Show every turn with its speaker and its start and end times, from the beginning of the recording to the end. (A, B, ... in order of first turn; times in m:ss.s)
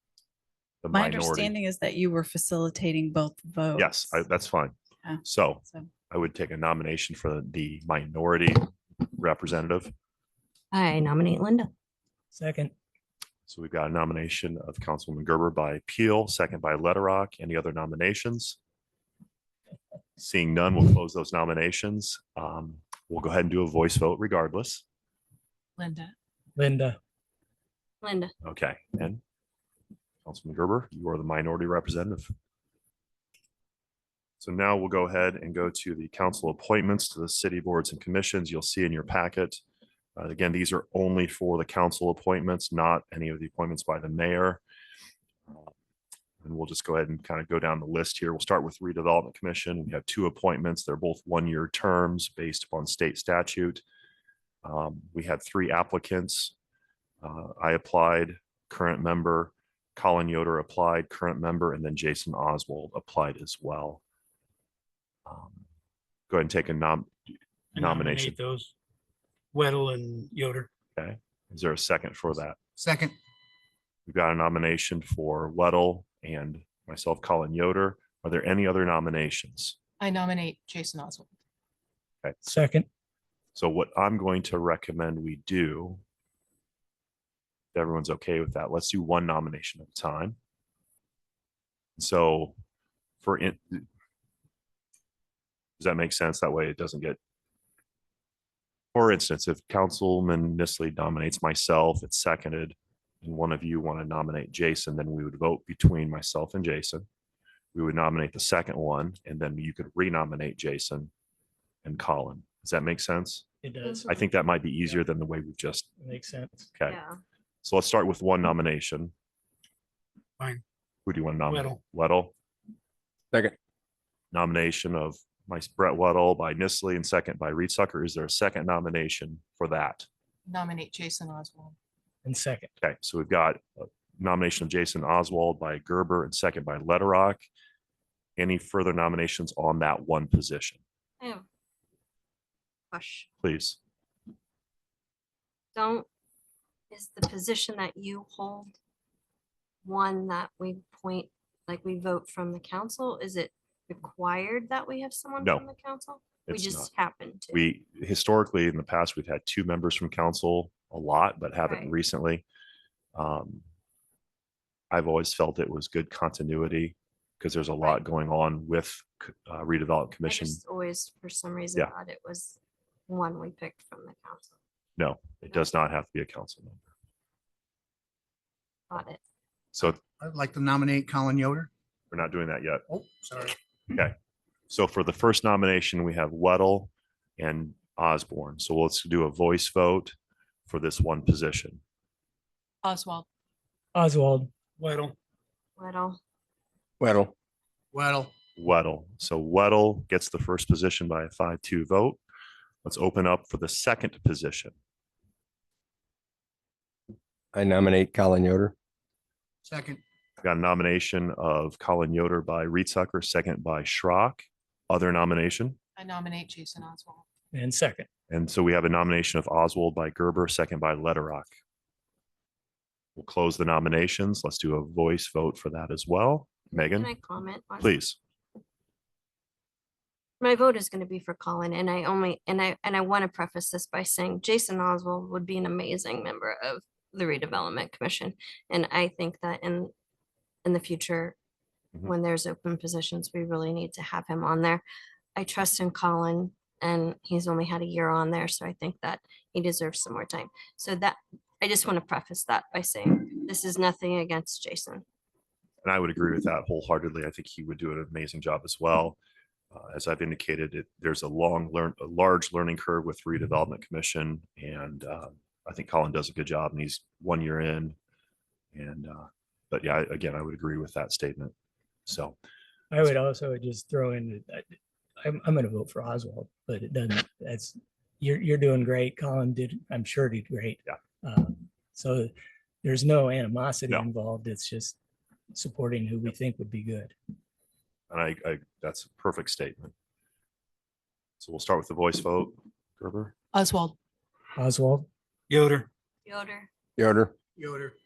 0:00.8-0:01.6 A
0:00.9-0:04.3 B
0:03.7-0:09.9 A
0:05.0-0:05.9 B
0:10.7-0:11.7 C
0:12.4-0:12.7 D
0:13.5-0:18.6 A
0:20.2-0:24.8 A
0:25.8-0:26.1 E
0:26.6-0:27.0 D
0:28.0-0:28.3 C
0:28.4-0:29.2 A
0:30.2-0:32.3 A
0:34.4-0:39.6 A
0:40.2-0:44.6 A
0:46.4-0:53.8 A
0:54.6-0:56.5 A
0:57.2-1:04.0 A
1:05.2-1:05.6 A
1:06.3-1:07.1 A
1:07.7-1:08.4 A
1:07.7-1:08.7 F
1:09.5-1:10.7 F
1:11.0-1:12.6 A
1:12.8-1:13.1 G
1:14.1-1:19.8 A
1:20.0-1:21.3 E
1:22.4-1:22.8 D
1:23.5-1:26.0 A
1:27.7-1:30.4 A
1:32.0-1:32.5 A
1:33.2-1:33.8 A
1:35.8-1:37.2 A
1:38.9-1:47.0 A
1:47.7-1:51.1 A
1:51.8-1:53.4 A
1:53.6-1:54.2 D
1:54.0-1:55.9 A
1:56.0-1:56.7 D
1:56.8-1:57.2 C
1:57.6-1:59.1 A
2:01.0-2:02.3 A
2:01.5-2:01.8 F
2:04.3-2:10.1 A
2:10.4-2:11.8 E
2:12.2-2:12.7 D
2:12.8-2:17.4 A
2:18.4-2:20.8 A
2:22.9-2:23.3 C
2:23.4-2:23.8 A
2:25.7-2:26.1 C
2:26.9-2:28.7 C
2:29.8-2:37.7 C
2:35.4-2:35.6 A
2:36.4-2:36.9 A
2:37.5-2:42.4 A
2:41.6-2:41.9 C
2:43.1-2:43.6 A
2:44.9-2:50.6 A
2:50.2-2:52.6 C
2:53.1-2:54.5 C
2:55.0-2:56.9 A
2:58.9-2:59.2 C
3:00.2-3:01.7 G
3:02.1-3:02.8 A
3:02.9-3:03.6 G
3:04.7-3:10.1 A
3:10.7-3:11.8 A
3:12.8-3:13.3 E
3:13.9-3:14.5 D
3:14.8-3:15.1 F
3:15.8-3:16.2 C
3:17.0-3:17.3 H
3:18.6-3:22.2 A
3:22.8-3:24.7 A
3:27.5-3:28.7 H
3:29.6-3:30.0 G
3:30.4-3:35.8 A
3:36.0-3:37.2 E
3:37.5-3:38.1 D
3:38.3-3:41.5 A
3:43.2-3:47.1 A
3:46.7-3:47.9 C
3:47.8-3:48.2 A
3:50.4-3:59.9 C
4:00.6-4:01.3 C
4:02.0-4:04.8 C
4:05.4-4:15.0 C
4:15.8-4:19.2 A
4:19.7-4:28.0 A
4:28.7-4:31.5 A
4:32.1-4:32.4 A
4:32.9-4:42.3 D
4:42.8-4:45.0 D
4:45.5-4:47.1 D
4:48.1-4:49.9 A
4:51.4-4:53.3 A
4:53.5-4:54.0 E
4:54.6-4:55.1 D
4:55.5-4:55.9 F
4:56.2-4:56.7 C
4:57.0-4:57.3 H
4:57.6-4:57.9 F